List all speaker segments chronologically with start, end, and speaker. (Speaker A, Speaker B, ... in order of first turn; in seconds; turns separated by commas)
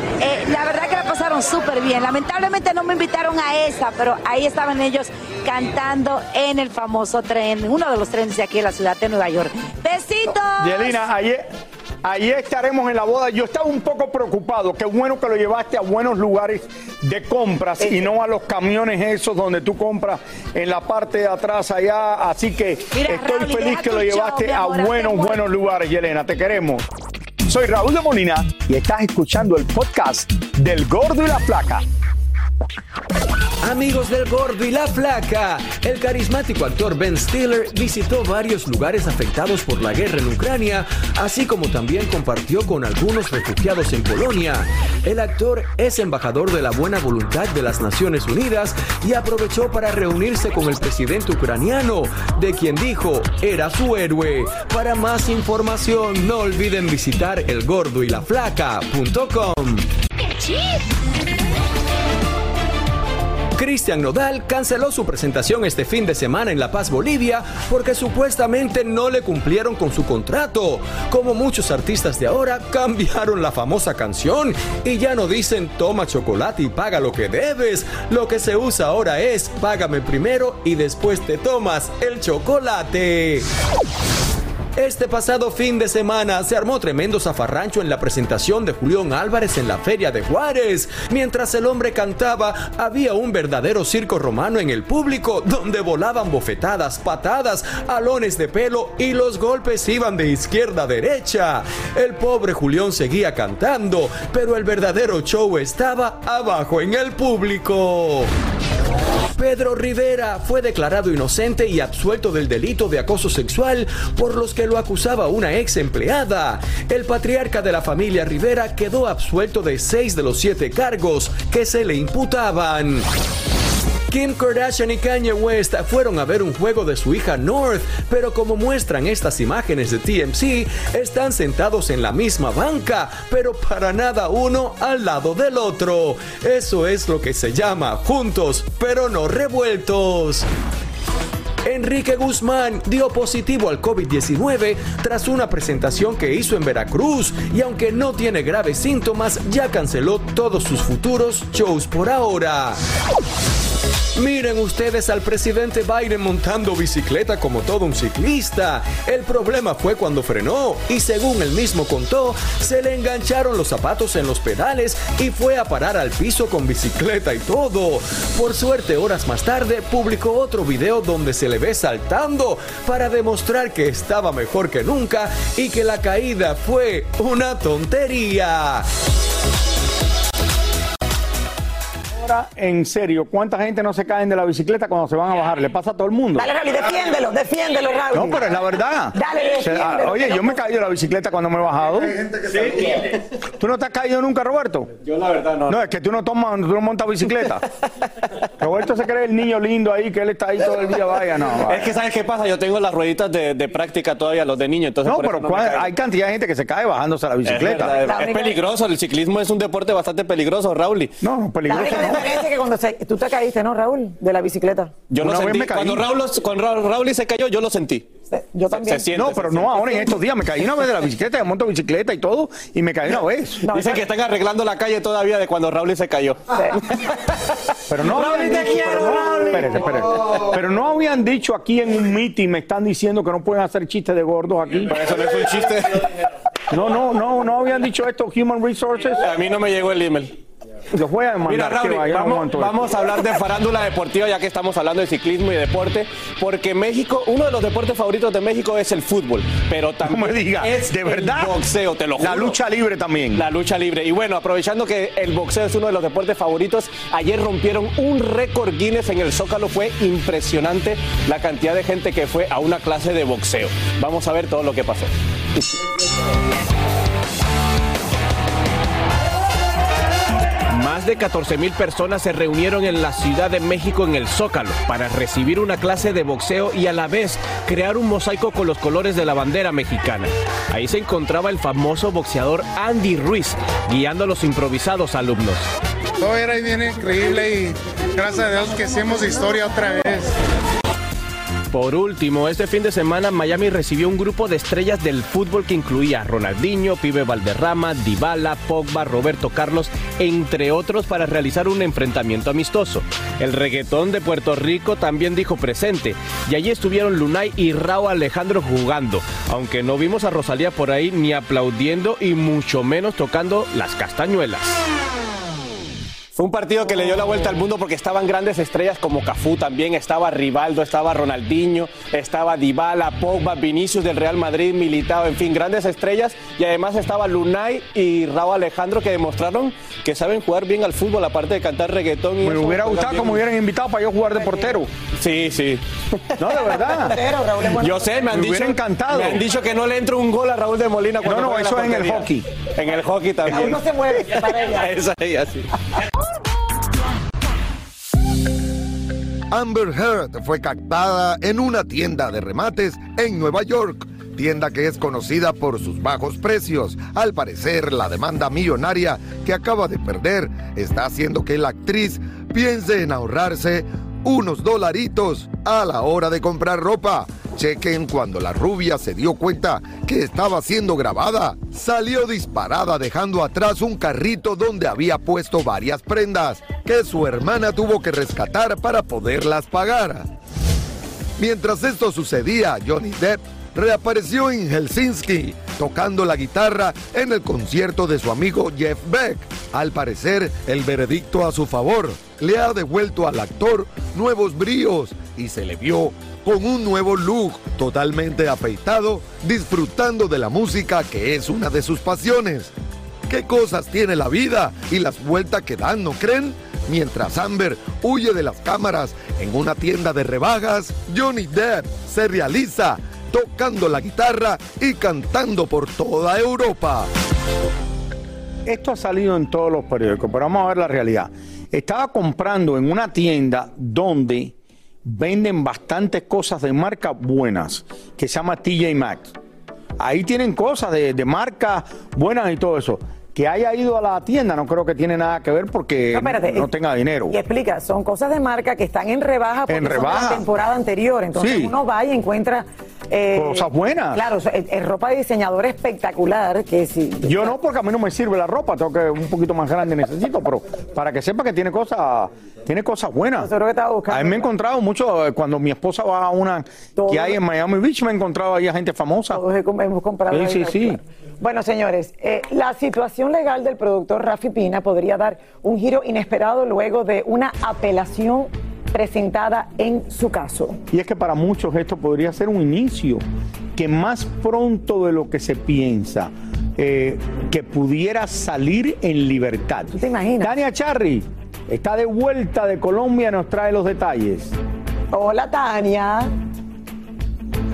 Speaker A: 0.2-11.0, Speaker B: 10.6-11.5, Speaker B: 12.0-26.9, Speaker C: 17.8-18.1, Speaker A: 22.9-25.5, Speaker B: 27.5-31.8, Speaker D: 33.6-59.9, Speaker D: 63.6-83.5, Speaker D: 84.8-108.3, Speaker D: 109.3-123.1, Speaker D: 124.1-140.5, Speaker D: 141.7-152.8, Speaker D: 154.2-178.9, Speaker B: 182.1-186.5, Speaker C: 186.4-188.4, Speaker B: 188.1-192.2, Speaker C: 189.1-190.6, Speaker E: 192.5-192.9, Speaker B: 193.6-194.9, Speaker E: 195.0-195.8, Speaker B: 195.7-197.7, Speaker B: 198.6-202.0, Speaker E: 201.6-205.9, Speaker B: 205.0-208.0, Speaker E: 207.4-211.2, Speaker C: 208.0-208.6, Speaker B: 211.2-212.3, Speaker C: 211.7-214.9, Speaker E: 215.1-218.1, Speaker B: 215.2-216.1, Speaker C: 218.3-219.3, Speaker E: 218.7-220.0, Speaker B: 219.1-223.7, Speaker C: 223.6-224.1, Speaker E: 223.7-226.4, Speaker B: 227.9-235.2, Speaker E: 228.0-230.0, Speaker E: 234.7-236.1, Speaker B: 236.7-239.4, Speaker E: 239.1-240.4, Speaker B: 240.9-242.9, Speaker E: 241.4-252.6, Speaker B: 250.0-251.6, Speaker B: 252.2-253.4, Speaker E: 253.3-265.1, Speaker E: 270.7-285.7, Speaker F: 286.2-290.3, Speaker E: 291.7-314.8, Speaker E: 316.3-333.4, Speaker B: 332.4-334.9, Speaker C: 334.4-334.7, Speaker E: 335.2-336.6, Speaker B: 336.4-337.2, Speaker C: 336.5-338.2, Speaker E: 337.8-345.7, Speaker B: 338.3-339.4, Speaker B: 341.2-342.5, Speaker C: 343.5-345.0, Speaker G: 349.5-380.3, Speaker G: 381.4-402.7, Speaker G: 403.3-417.1, Speaker B: 418.7-429.3, Speaker B: 430.0-437.4, Speaker C: 436.1-436.7, Speaker C: 437.3-447.6, Speaker B: 439.7-440.4, Speaker B: 441.4-441.7, Speaker B: 443.3-444.2, Speaker B: 447.2-453.5, Speaker C: 453.4-454.5, Speaker B: 454.1-459.4, Speaker C: 457.0-457.4, Speaker C: 459.3-470.8, Speaker B: 460.3-461.0, Speaker B: 470.9-473.2, Speaker B: 473.8-484.6, Speaker C: 479.9-480.5, Speaker C: 485.1-486.3